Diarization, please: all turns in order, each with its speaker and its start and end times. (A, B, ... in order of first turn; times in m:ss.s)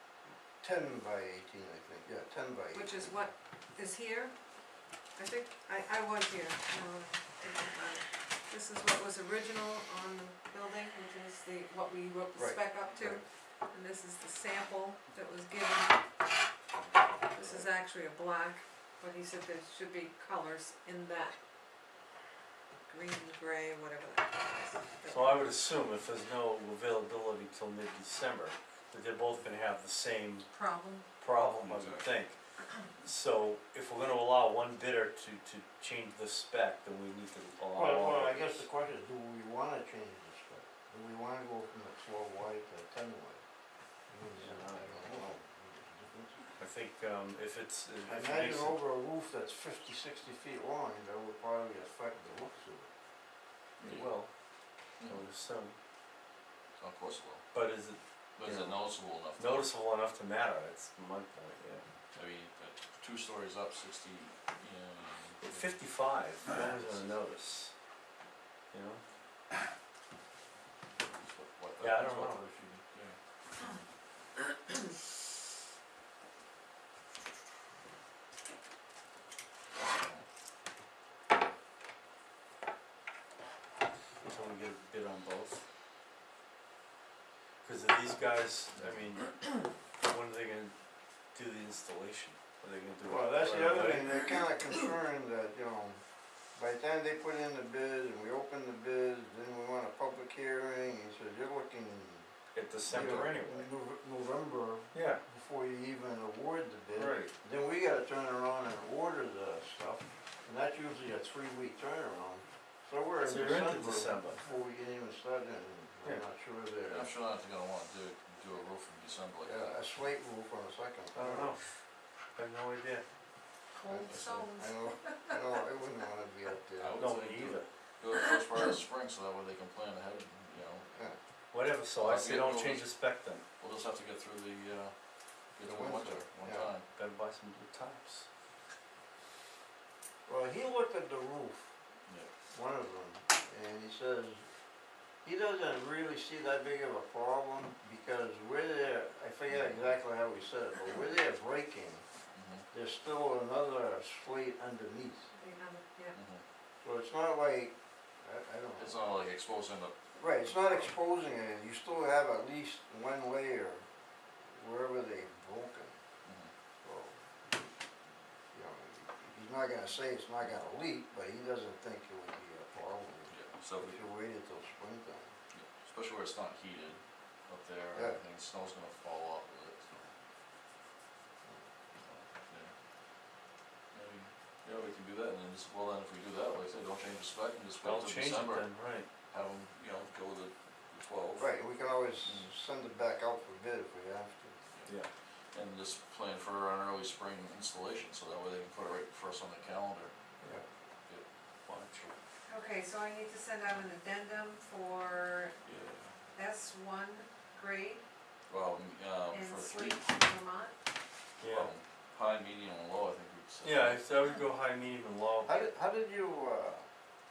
0:00.6-0:03.2 A
0:02.7-0:04.3 B
0:05.2-0:16.0 B
0:12.4-0:13.2 A
0:17.3-0:21.3 B
0:22.9-0:25.5 B
0:25.0-0:30.5 C
0:30.5-0:31.0 B
0:31.2-0:32.4 C
0:31.6-0:32.1 D
0:33.0-0:38.6 C
0:37.7-0:43.4 A
0:44.1-0:46.5 A
0:44.4-0:45.0 C
0:46.6-0:48.8 C
0:48.0-0:52.9 A
0:53.8-0:54.3 C
0:53.8-0:54.1 D
0:55.0-0:55.2 D
0:55.0-0:55.8 C
0:56.8-0:57.4 D
0:57.5-1:01.8 C
0:58.4-0:59.7 D
1:02.1-1:05.7 D
1:05.4-1:07.7 C
1:06.6-1:07.1 D
1:08.7-1:09.0 C
1:10.9-1:13.2 D
1:11.8-1:12.4 C
1:19.8-1:20.2 D
1:24.2-1:25.6 C
1:27.6-1:30.7 C
1:31.3-1:34.4 C
1:33.0-1:36.0 A
1:36.5-1:42.3 A
1:42.5-1:43.7 C
1:42.8-1:57.1 A
1:44.9-1:45.2 C
1:46.9-1:47.3 C
1:53.2-1:54.4 C
1:56.8-1:59.8 D
1:59.4-2:01.5 A
2:01.1-2:01.6 C
2:02.4-2:03.0 C
2:03.7-2:05.4 B
2:03.8-2:07.0 A
2:04.1-2:04.4 D
2:06.8-2:10.8 D
2:07.0-2:07.7 C
2:10.9-2:11.2 A
2:11.5-2:13.4 C
2:11.9-2:12.9 D
2:13.6-2:14.9 D
2:15.5-2:16.8 D
2:15.6-2:16.7 A
2:17.0-2:18.3 C
2:20.3-2:21.7 A
2:22.5-2:24.5 A
2:25.2-2:32.0 A
2:29.5-2:29.9 D
2:32.3-2:32.6 D
2:32.7-2:35.3 A
2:35.3-2:36.2 B
2:36.1-2:36.4 D
2:36.8-2:39.1 A
2:38.8-2:40.9 D
2:40.2-2:43.9 A
2:44.4-2:46.0 A
2:46.2-2:46.5 D
2:46.8-2:47.3 A
2:48.5-2:55.3 A
2:53.3-2:54.0 D
2:55.5-3:00.1 D
2:57.9-2:58.2 A
3:02.0-3:02.7 D
3:03.9-3:08.7 D
3:07.8-3:09.1 C
3:09.3-3:11.6 D
3:11.4-3:14.6 A
3:12.2-3:12.5 D
3:15.5-3:20.1 D
3:21.6-3:22.1 C
3:22.4-3:25.6 B
3:25.6-3:26.2 D
3:26.3-3:28.0 B
3:28.5-3:30.3 D
3:29.3-3:30.8 B
3:31.4-3:31.7 C
3:31.4-3:34.0 D
3:33.6-3:35.6 C
3:35.4-3:36.9 A